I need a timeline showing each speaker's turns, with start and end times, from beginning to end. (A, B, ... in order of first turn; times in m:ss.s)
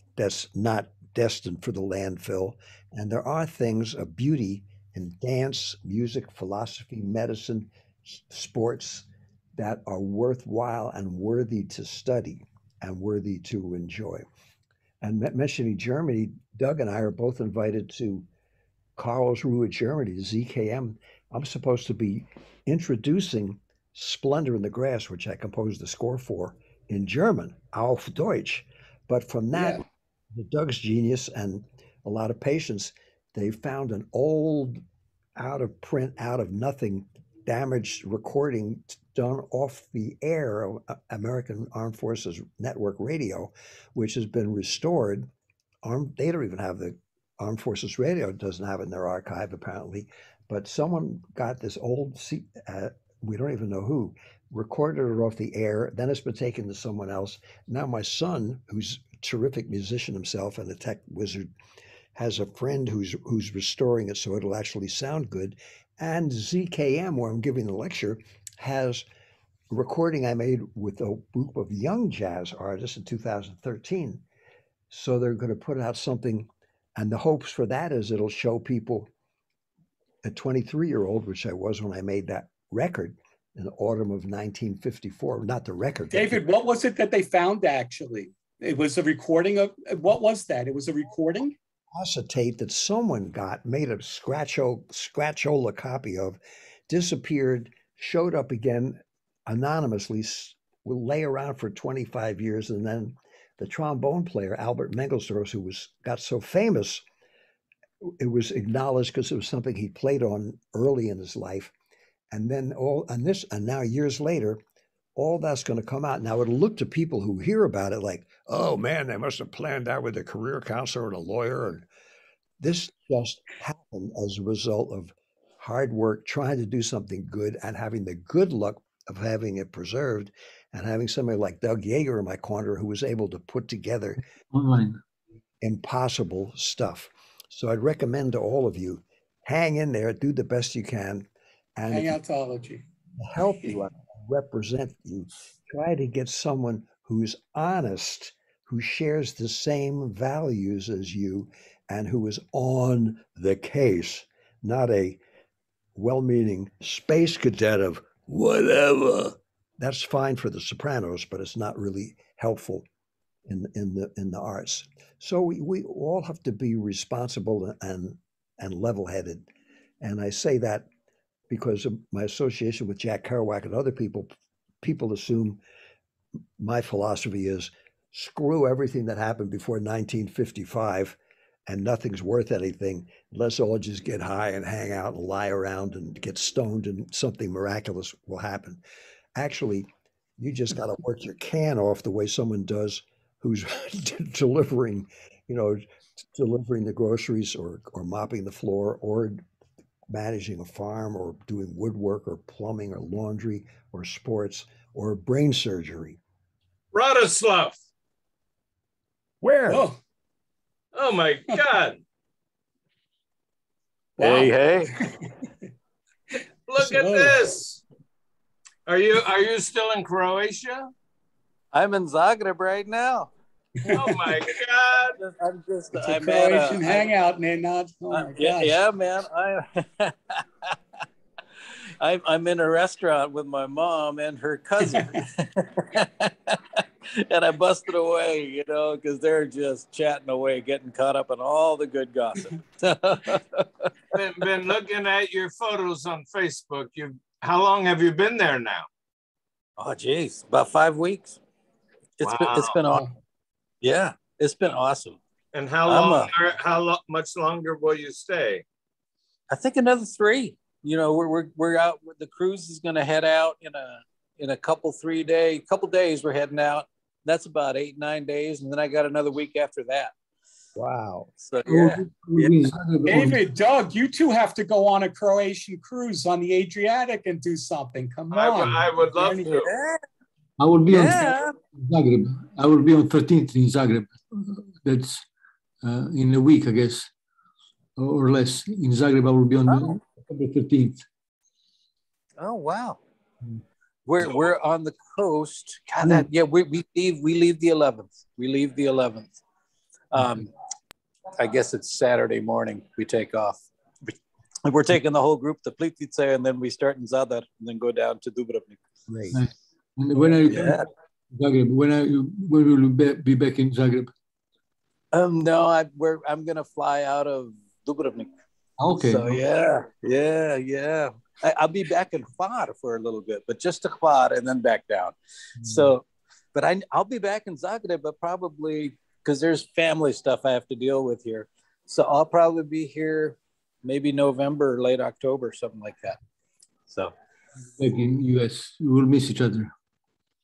0:00.2-0:14.3 A
0:15.0-0:18.3 A
0:19.0-0:34.8 A
0:29.5-0:29.8 B
0:35.4-0:45.3 A
0:45.8-1:01.5 A
1:02.2-1:09.0 A
1:09.7-1:14.2 A
1:14.9-1:19.1 A
1:20.2-1:26.4 A
1:26.1-1:31.6 B
1:31.9-1:47.0 A
1:48.0-1:51.7 A
1:52.3-1:54.6 A
1:55.2-2:01.9 A
2:02.6-2:14.2 A
2:14.5-2:15.0 C
2:15.6-2:22.2 A
2:21.9-2:22.8 B
2:23.2-2:35.2 A
2:36.0-2:42.9 A
2:43.5-2:49.5 A
2:50.0-2:50.9 A
2:51.5-2:54.3 A
2:54.8-2:55.6 A
2:56.6-3:08.8 A
3:09.4-3:09.9 A
3:10.4-3:19.4 A
3:20.1-3:26.2 A
3:26.9-3:27.8 D
3:29.4-3:29.9 A
3:29.7-3:30.0 B
3:30.9-3:32.0 D
3:34.2-3:35.4 B
3:34.2-3:35.0 E
3:36.7-3:37.8 D
3:36.8-3:37.6 B
3:38.9-3:40.9 D
3:41.7-3:43.3 E
3:43.8-3:44.2 B
3:43.8-3:45.2 D
3:45.2-3:47.1 E
3:46.0-3:48.8 B
3:48.1-3:50.7 E
3:52.0-4:03.9 E
4:04.1-4:08.9 D
4:09.8-4:11.4 E
4:12.2-4:13.1 E
4:12.2-4:12.8 D
4:13.8-4:15.2 E
4:15.5-4:18.6 D
4:15.9-4:16.3 E
4:19.5-4:30.1 E
4:30.8-4:31.3 A
4:31.4-4:32.6 E
4:31.7-4:33.4 C
4:33.0-4:39.5 B
4:38.3-4:39.7 D
4:39.5-4:40.0 E
4:40.6-4:45.2 C
4:40.9-4:41.6 E
4:45.8-4:47.1 C
4:48.0-4:51.0 C
4:49.7-4:50.0 E
4:52.4-4:53.0 E
4:54.1-4:59.4 E
4:56.0-4:56.3 C
5:00.1-5:00.5 E
5:00.2-5:00.4 C
5:01.4-5:08.8 E
5:09.1-5:09.4 A
5:09.3-5:14.1 C
5:10.4-5:10.9 E
5:15.1-5:18.3 E
5:18.8-5:19.4 C
5:19.0-5:36.2 E
5:25.6-5:25.9 C
5:36.9-5:37.1 E
5:37.8-5:39.7 C